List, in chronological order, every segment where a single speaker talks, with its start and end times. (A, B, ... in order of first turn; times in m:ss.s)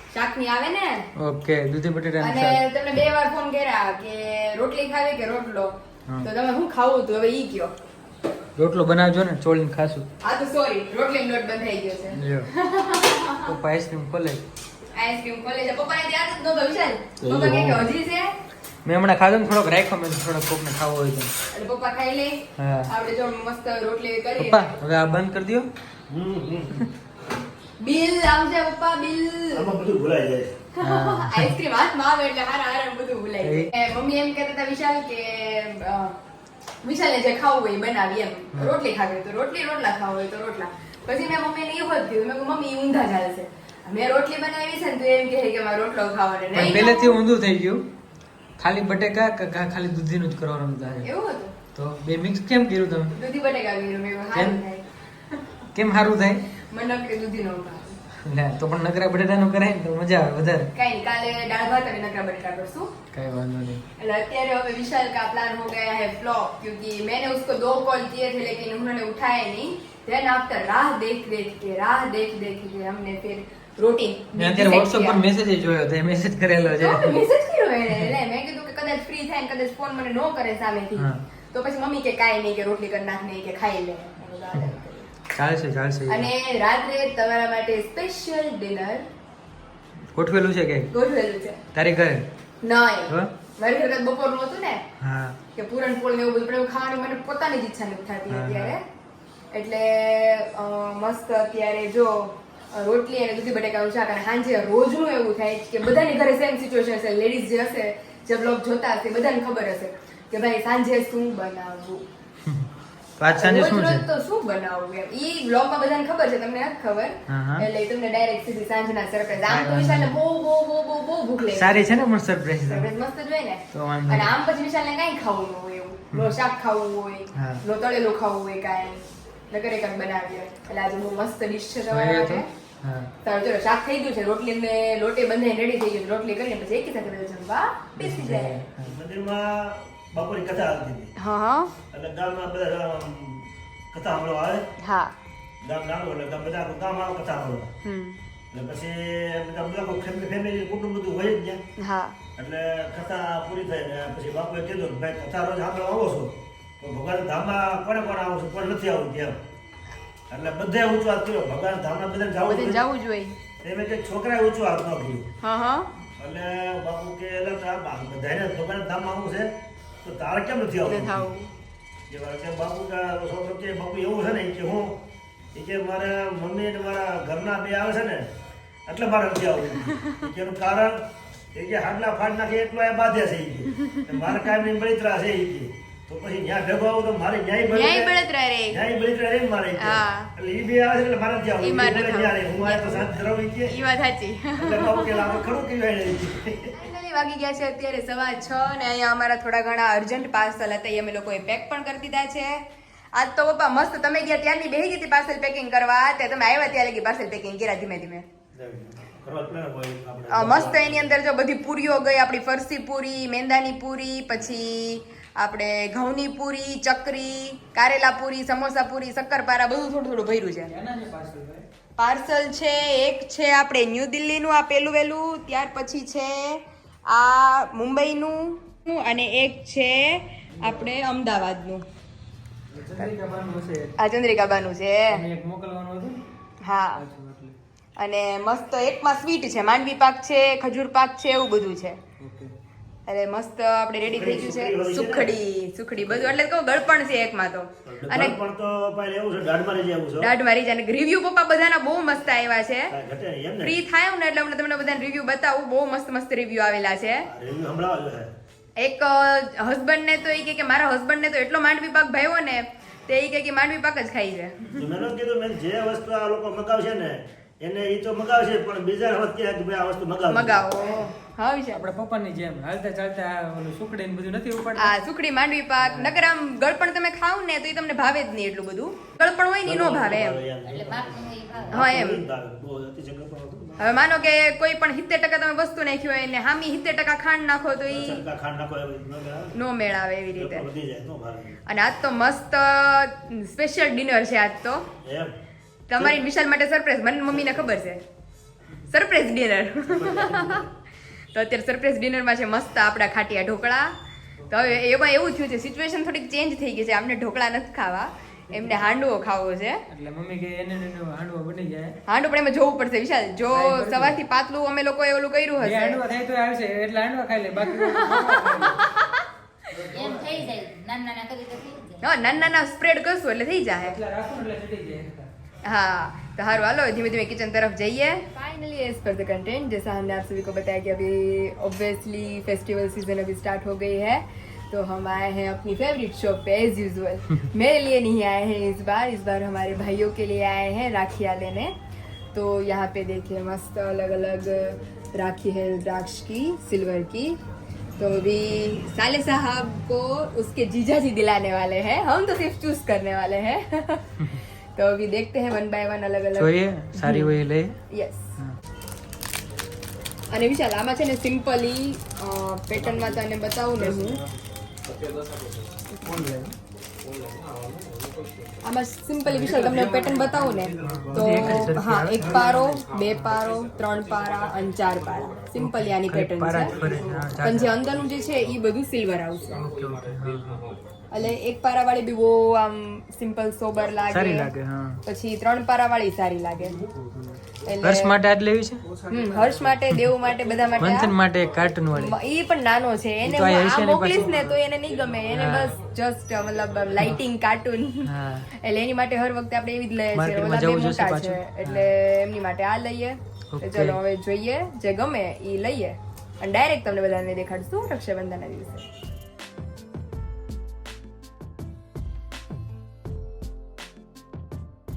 0:00.1-0:01.0 A
0:01.2-0:02.6 B
0:02.2-0:07.7 A
0:08.6-0:10.1 B
0:10.2-0:13.5 A
0:12.2-0:12.5 B
0:13.4-0:14.4 B
0:14.9-0:18.3 A
0:17.2-0:17.9 C
0:18.8-0:21.3 B
0:21.5-0:24.7 A
0:22.6-0:22.9 B
0:24.4-0:25.7 B
0:26.1-0:26.8 C
0:27.8-0:29.7 A
0:29.5-0:30.6 C
0:30.8-0:36.2 A
0:30.8-0:31.5 B
0:33.4-0:33.7 B
0:36.8-0:47.2 A
0:46.5-0:47.8 B
0:48.6-0:51.1 B
0:51.0-0:51.6 A
0:51.7-0:53.2 B
0:53.1-0:55.5 A
0:54.3-0:54.6 B
0:55.7-0:56.4 B
0:56.6-0:58.0 A
0:58.2-1:00.7 B
1:00.8-1:02.9 A
1:03.1-1:03.8 B
1:04.0-1:15.2 A
1:14.4-1:17.2 B
1:16.8-1:25.1 A
1:21.0-1:21.2 B
1:25.3-1:26.3 B
1:26.1-1:29.0 A
1:30.1-1:30.9 B
1:30.9-1:31.6 A
1:31.7-1:32.2 B
1:32.6-1:34.8 A
1:35.0-1:35.4 B
1:35.5-1:38.8 A
1:38.3-1:38.8 B
1:39.5-1:52.0 A
1:53.2-1:54.0 B
1:53.3-2:01.8 A
1:57.3-1:57.7 B
1:59.4-2:00.2 B
2:01.4-2:02.9 B
2:02.7-2:12.5 A
2:03.7-2:04.3 B
2:07.3-2:07.6 B
2:11.9-2:13.1 B
2:13.2-2:18.6 A
2:18.0-2:19.0 B
2:18.8-2:21.1 C
2:21.2-2:21.7 A
2:21.9-2:24.7 C
2:24.8-2:25.1 A
2:25.6-2:27.7 C
2:27.8-2:28.2 A
2:28.5-2:31.6 C
2:31.8-2:32.2 A
2:32.4-2:39.4 C
2:40.3-2:42.8 C
2:42.5-2:43.4 A
2:43.6-2:45.3 C
2:45.4-2:45.9 A
2:46.2-2:51.3 C
2:50.9-2:51.5 A
2:52.1-2:55.0 C
2:55.5-2:58.3 C
2:58.8-3:13.7 C
3:03.9-3:04.3 A
3:07.7-3:08.8 A
3:09.8-3:10.3 A
3:11.6-3:15.4 A
3:14.6-3:16.8 C
3:16.8-3:28.3 A
3:28.5-3:31.2 C
3:30.3-3:40.7 A
3:40.6-3:41.6 B
3:42.0-3:51.8 A
3:50.5-3:50.9 B
3:52.7-3:53.9 B
3:54.0-3:55.2 A
3:55.1-3:56.2 B
3:56.6-3:57.0 A
3:56.9-3:57.5 B
3:58.0-4:02.0 A
4:02.2-4:02.5 B
4:03.1-4:08.4 A
4:04.0-4:05.3 C
4:06.0-4:06.4 C
4:07.8-4:10.3 C
4:10.2-4:12.9 A
4:12.9-4:13.7 C
4:13.6-4:17.3 A
4:17.2-4:18.3 C
4:18.8-4:24.8 A
4:24.7-4:30.6 C
4:30.3-4:31.8 A
4:31.7-4:34.9 B
4:34.8-4:40.4 A
4:35.8-4:36.2 B
4:39.6-4:44.0 C
4:40.6-4:41.9 D
4:41.7-4:42.2 A
4:43.8-4:48.2 A
4:47.9-4:49.6 C
4:49.5-4:50.6 A
4:50.3-4:51.6 C
4:51.7-4:54.9 A
4:55.0-4:55.3 C
4:55.9-4:58.0 A
4:57.3-4:57.7 C
4:58.9-5:00.6 A
4:59.8-5:00.7 C
5:01.3-5:03.9 A
5:04.5-5:09.8 A
5:08.5-5:08.9 B
5:09.9-5:12.0 B
5:12.1-5:16.0 A
5:13.5-5:14.2 B
5:15.6-5:18.9 B
5:17.7-5:19.2 A
5:19.7-5:20.5 B
5:19.9-5:22.1 D
5:22.0-5:24.0 A
5:23.8-5:25.3 B
5:25.6-5:41.7 A
5:42.3-5:47.4 A
5:48.0-5:57.3 A
5:56.4-5:57.7 B
5:57.9-5:58.3 A
6:00.3-6:04.2 A
6:06.0-6:06.5 B
6:07.1-6:08.5 C
6:08.6-6:16.8 A
6:09.2-6:13.4 B
6:15.5-6:17.8 B
6:16.8-6:17.3 C
6:17.4-6:19.7 A
6:19.5-6:20.7 B
6:21.1-6:24.5 A
6:24.1-6:25.0 B
6:25.0-6:26.8 A
6:26.9-6:28.9 B
6:27.6-6:28.1 A
6:29.1-6:31.1 A
6:30.8-6:32.1 B
6:31.9-6:48.8 A
6:33.2-6:34.6 B
6:35.3-6:35.8 B
6:38.0-6:38.5 B
6:40.1-6:41.9 B
6:43.5-6:44.0 B